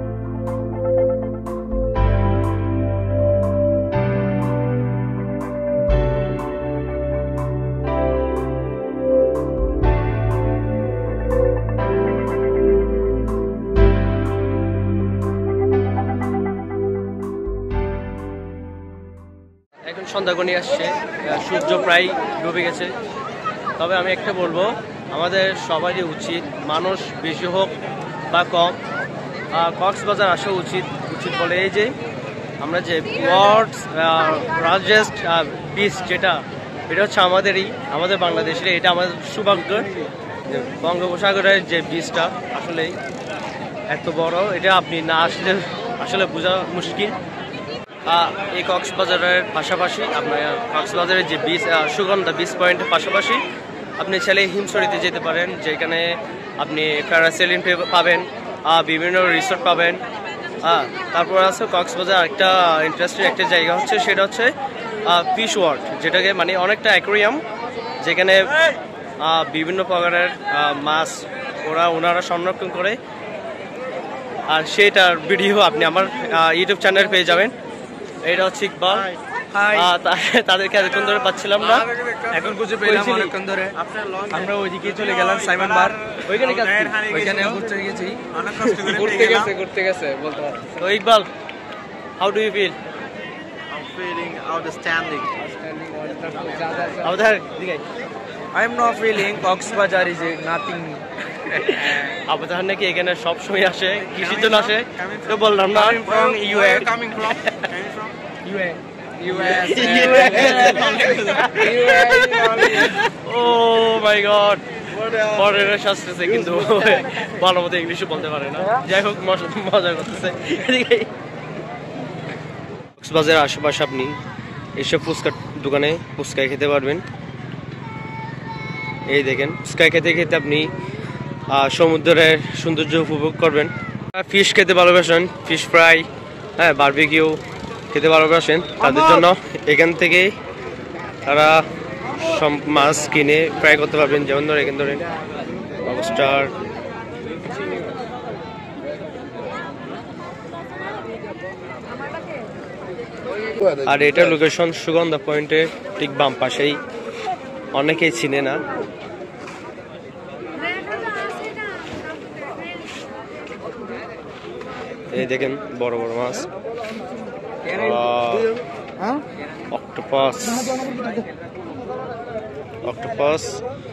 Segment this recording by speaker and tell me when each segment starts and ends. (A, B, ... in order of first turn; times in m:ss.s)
0:19.8-0:22.9 A
0:23.8-0:27.7 A
0:28.3-0:28.8 A
0:29.5-0:31.9 A
0:32.6-0:39.9 A
0:40.5-0:42.9 A
0:43.9-0:47.2 A
0:48.1-0:53.4 A
0:54.0-1:00.0 A
1:00.6-1:04.5 A
1:05.1-1:07.4 A
1:08.0-1:08.5 A
1:09.2-1:13.0 A
1:14.5-1:17.5 A
1:18.2-1:19.1 A
1:19.5-1:19.9 B
1:19.7-1:23.3 A
1:21.8-1:23.8 B
1:23.8-1:27.6 C
1:24.3-1:26.2 B
1:26.2-1:27.1 A
1:26.9-1:30.8 B
1:28.3-1:29.5 C
1:30.8-1:31.3 A
1:32.2-1:32.8 A
1:33.7-1:35.4 C
1:35.4-1:37.1 B
1:37.0-1:37.8 A
1:38.5-1:42.2 B
1:41.5-1:46.6 A
1:44.1-1:45.3 C
1:45.7-1:47.9 B
1:46.1-1:46.7 C
1:47.4-1:47.7 A
1:47.7-1:48.1 C
1:48.4-1:53.0 B
1:49.4-2:01.1 A
1:50.1-1:51.5 C
2:03.0-2:04.2 A
2:04.8-2:07.0 A
2:09.1-2:10.7 A
2:11.5-2:16.1 A
2:16.6-2:17.4 A
2:17.9-2:20.3 A
2:21.2-2:25.0 A
2:25.8-2:26.5 A
2:33.8-2:36.8 A
2:37.7-2:38.6 A
2:45.1-2:46.5 A
2:47.7-2:48.6 A
2:49.7-2:50.8 A
2:52.8-2:53.6 A